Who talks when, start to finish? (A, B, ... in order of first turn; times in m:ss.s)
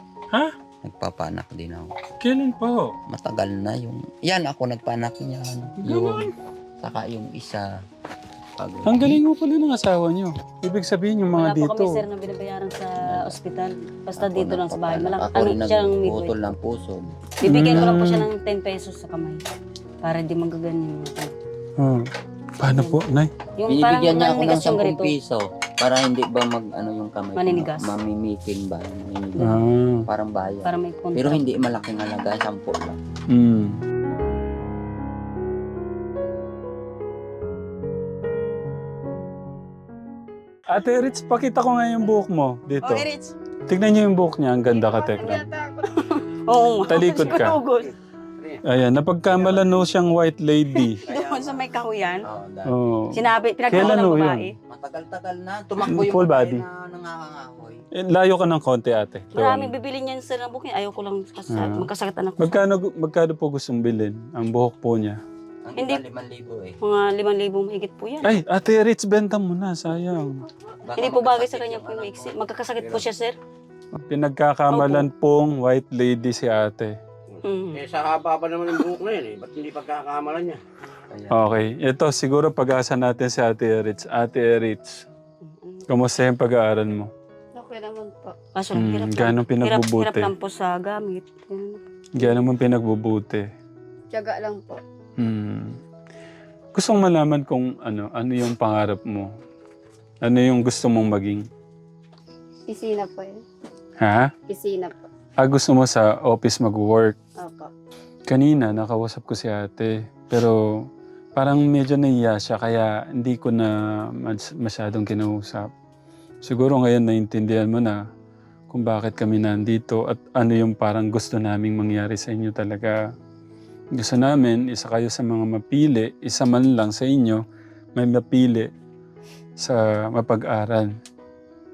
0:00.8-0:01.9 A
0:02.2-0:02.9 B
0:03.1-0:06.3 A
0:05.8-0:06.3 B
0:06.8-0:07.7 A
0:08.6-0:09.2 A
0:08.8-0:12.0 B
0:11.3-0:16.4 C
0:13.0-0:13.4 A
0:14.2-0:17.2 A
0:17.4-0:19.4 C
0:17.4-0:18.3 B
0:20.0-0:21.3 C
0:21.8-0:23.3 B
0:22.6-0:23.0 C
0:23.6-0:25.1 C
0:23.7-0:33.0 A
0:27.4-0:27.8 C
0:29.4-0:30.1 B
0:30.6-0:31.4 C
0:33.3-0:33.8 B
0:40.7-0:43.0 B
0:42.8-0:43.3 C
0:43.7-0:45.4 B
0:44.7-0:45.9 D
0:46.5-0:47.9 C
0:46.9-0:47.6 B
0:48.6-0:51.0 B
0:50.7-0:52.2 C
0:51.1-0:51.7 A
0:52.2-0:52.7 A
0:52.7-0:54.5 B
0:53.1-0:54.5 C
0:53.7-0:54.0 A
0:54.7-0:57.8 A
0:55.8-0:56.6 B
0:58.0-0:59.7 B
0:59.3-1:02.6 C
1:01.5-1:01.9 B
1:02.4-1:05.2 B
1:05.6-1:06.8 A
1:05.8-1:06.0 C
1:06.8-1:08.4 C
1:08.2-1:10.4 B
1:10.9-1:13.0 A
1:11.0-1:13.3 C
1:14.1-1:17.0 B
1:14.7-1:15.1 C
1:17.4-1:17.8 C
1:17.7-1:20.6 E
1:21.1-1:21.4 A
1:21.3-1:25.0 B
1:25.4-1:25.9 C
1:25.9-1:27.1 B
1:27.6-1:28.3 D
1:28.6-1:32.3 C
1:28.8-1:30.3 B
1:32.2-1:33.4 B
1:34.1-1:34.8 D
1:35.2-1:35.8 B
1:36.8-1:39.3 B
1:40.2-1:41.4 B
1:42.7-1:43.4 D
1:44.0-1:44.3 B
1:44.5-1:45.0 D
1:45.4-1:47.2 B
1:47.4-1:47.7 D
1:48.3-1:50.6 B
1:51.4-1:55.7 B
1:56.4-1:58.0 B
1:58.7-2:03.0 B
2:04.0-2:07.4 B
2:07.9-2:08.7 B
2:09.6-2:10.9 B